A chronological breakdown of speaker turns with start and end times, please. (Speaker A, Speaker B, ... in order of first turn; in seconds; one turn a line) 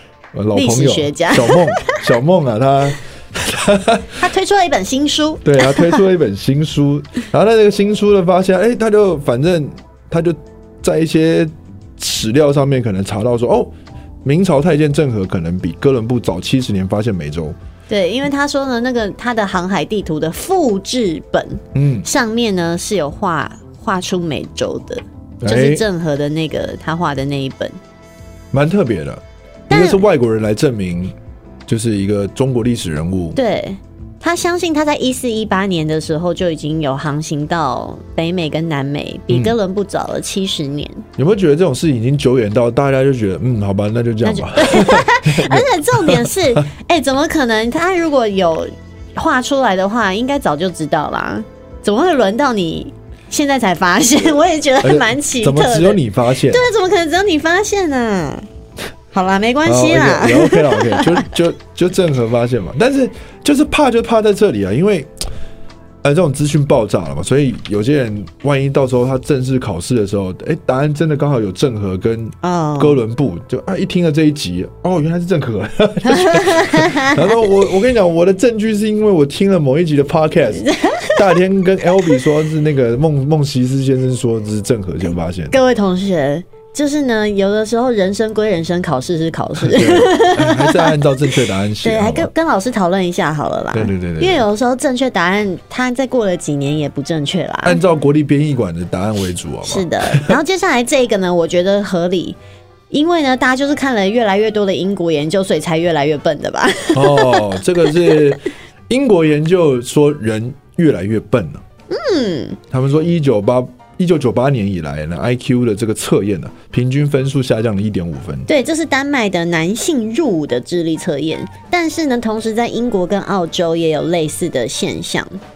Speaker A: 0.3-4.2
Speaker B: 0.5-2.0
Speaker B: 4.2-6.0
Speaker A: 5.4-13.7
Speaker A: 14.2-17.6
Speaker B: 17.9-27.8
Speaker A: 21.7-22.1
Speaker A: 25.4-25.8
Speaker A: 28.5-31.1
Speaker B: 29.7-30.1
Speaker A: 31.7-33.4
Speaker B: 33.4-41.0
Speaker A: 39.3-39.6
Speaker A: 41.2-46.4
Speaker B: 44.2-58.5
Speaker A: 54.8-56.6
Speaker B: 59.1-61.2
Speaker A: 59.6-65.1
Speaker A: 66.0-85.5
Speaker B: 72.4-73.0
Speaker B: 76.0-77.5
Speaker B: 80.6-81.2
Speaker B: 85.5-91.0
Speaker A: 89.6-92.3
Speaker B: 91.8-97.8
Speaker A: 93.7-94.5
Speaker A: 97.6-100.4
Speaker B: 99.6-102.4
Speaker B: 102.9-108.2
Speaker A: 106.9-111.6
Speaker B: 111.9-112.6
Speaker A: 112.7-118.5
Speaker B: 118.5-125.4